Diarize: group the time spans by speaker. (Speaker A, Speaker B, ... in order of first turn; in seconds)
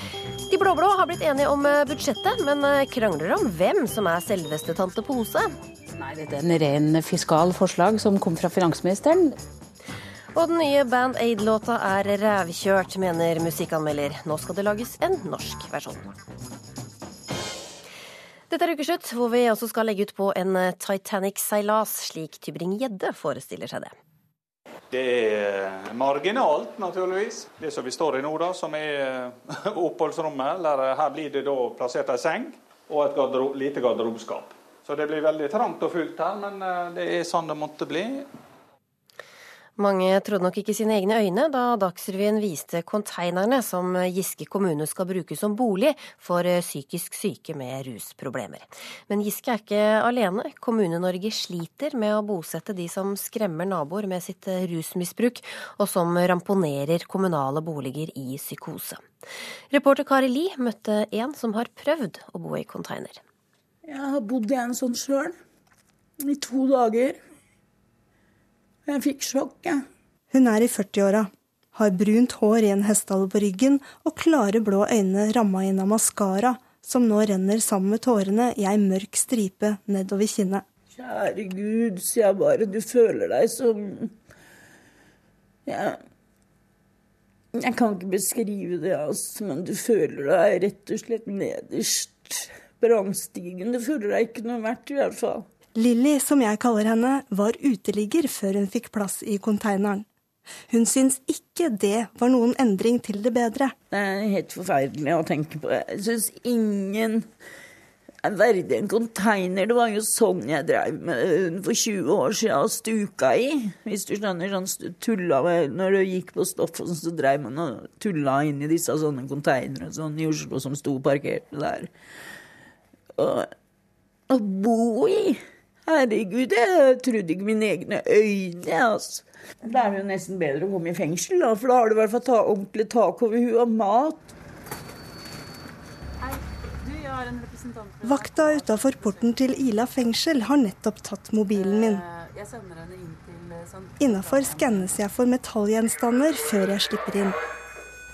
Speaker A: 0.5-5.6, 10.3-16.1, 18.5-23.9, 39.8-59.0, 59.7-63.2
Speaker B: 6.0-9.3, 136.2-139.6, 141.5-144.9
Speaker C: 24.9-38.3
Speaker D: 63.9-65.4, 66.2-67.2, 68.9-69.8, 80.9-84.1, 85.7-86.0, 87.5-95.5, 103.9-107.3, 108.2-121.9, 123.2-123.5, 124.3-134.3
Speaker E: 70.3-80.6, 95.8-100.0, 100.7-103.7, 138.0-142.0, 144.0-147.4